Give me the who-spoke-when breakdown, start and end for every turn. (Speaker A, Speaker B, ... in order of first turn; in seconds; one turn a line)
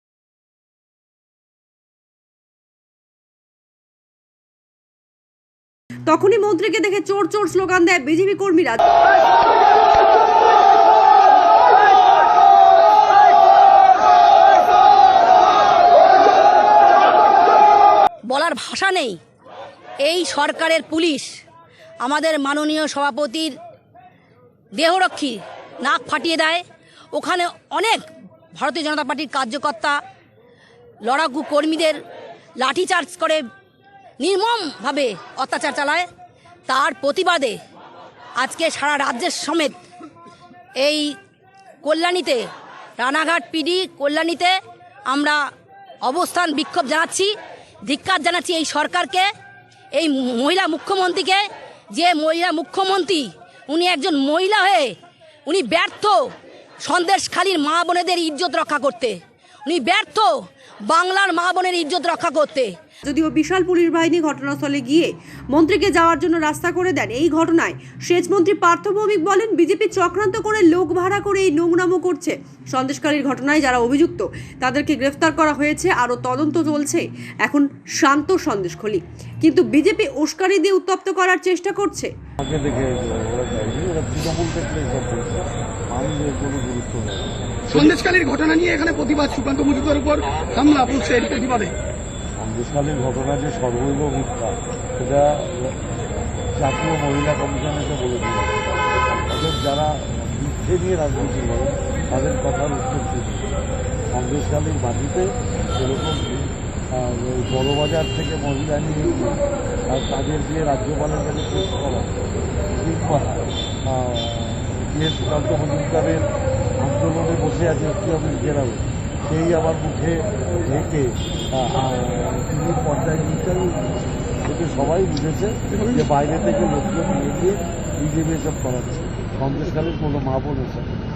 Speaker A: 6.1-8.8
Speaker B: 18.3-19.2
Speaker B: 20.0-21.4
Speaker B: 22.1-23.6
Speaker B: 24.8-26.6
Speaker B: 27.1-30.0
Speaker B: 31.1-32.0
Speaker B: 32.6-33.4
Speaker B: 34.2-36.1
Speaker B: 36.7-37.6
Speaker B: 38.4-39.8
Speaker B: 40.8-41.1
Speaker B: 41.8-42.5
Speaker B: 43.0-44.6
Speaker B: 45.1-45.4
Speaker B: 46.0-47.3
Speaker B: 47.9-49.3
Speaker B: 49.9-54.9
Speaker B: 55.5-56.2
Speaker B: 56.8-60.3
Speaker B: 60.9-62.7
Speaker A: 63.1-82.1
Speaker C: 82.4-87.8
Speaker D: 87.7-91.8
Speaker C: 92.3-95.9
Speaker C: 96.5-98.6
Speaker C: 99.2-103.5
Speaker C: 104.1-112.2
Speaker C: 112.7-116.3
Speaker C: 116.8-130.9